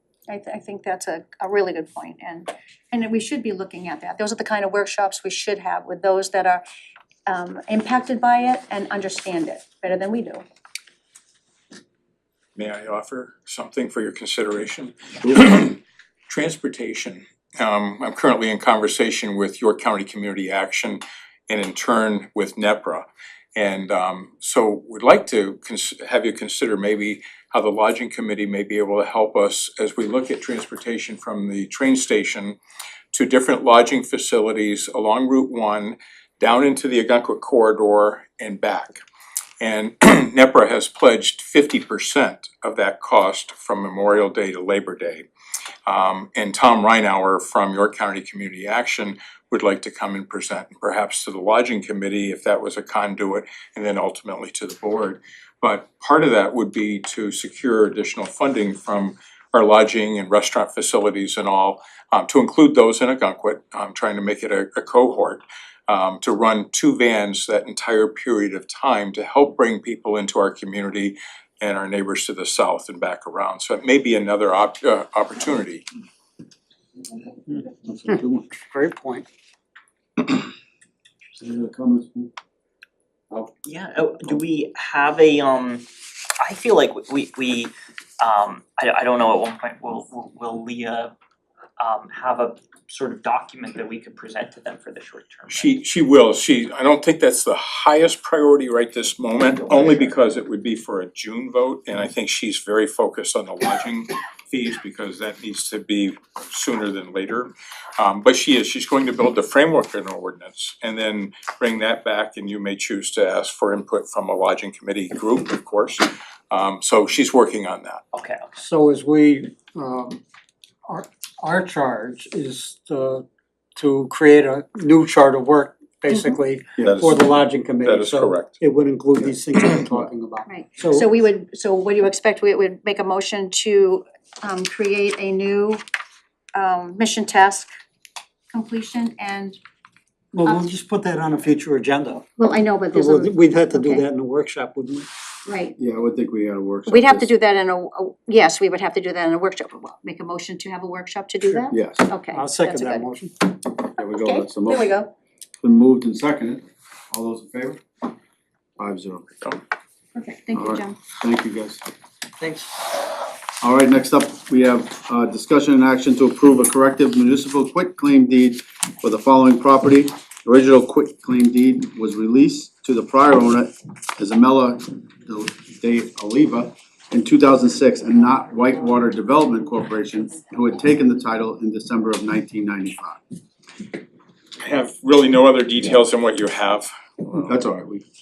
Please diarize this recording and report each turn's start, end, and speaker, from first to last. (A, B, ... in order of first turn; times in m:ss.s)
0:00.3-0:06.6 A
0:07.3-0:10.4 A
0:12.6-0:32.6 B
0:33.1-0:39.0 B
0:39.6-0:45.3 B
0:45.9-1:15.8 B
1:17.9-1:18.4 C
1:18.1-1:19.2 D
1:21.3-1:22.3 C
1:23.7-1:25.8 E
1:26.4-1:31.1 E
1:31.8-1:35.6 E
1:35.5-1:58.0 B
1:58.1-1:58.5 E
1:58.6-2:00.2 D
2:00.9-2:11.1 D
2:06.8-2:07.1 C
2:06.8-2:08.5 B
2:10.5-2:15.8 A
2:16.5-2:17.7 A
2:18.5-2:19.6 A
2:20.3-2:22.3 D
2:20.4-2:20.7 A
2:22.4-2:24.0 A
2:22.9-2:25.1 D
2:25.5-2:25.8 A
2:25.8-2:27.3 C
2:26.9-2:33.0 A
2:31.4-2:31.7 D
2:31.7-2:32.0 C
2:32.3-2:33.3 D
2:34.0-2:34.9 C
2:34.0-2:35.1 A
2:35.6-2:37.8 C
2:38.8-2:39.6 C
2:40.2-2:41.0 A
2:40.5-2:41.8 C
2:43.6-3:03.2 C
3:04.6-3:07.6 B
3:07.4-3:08.0 C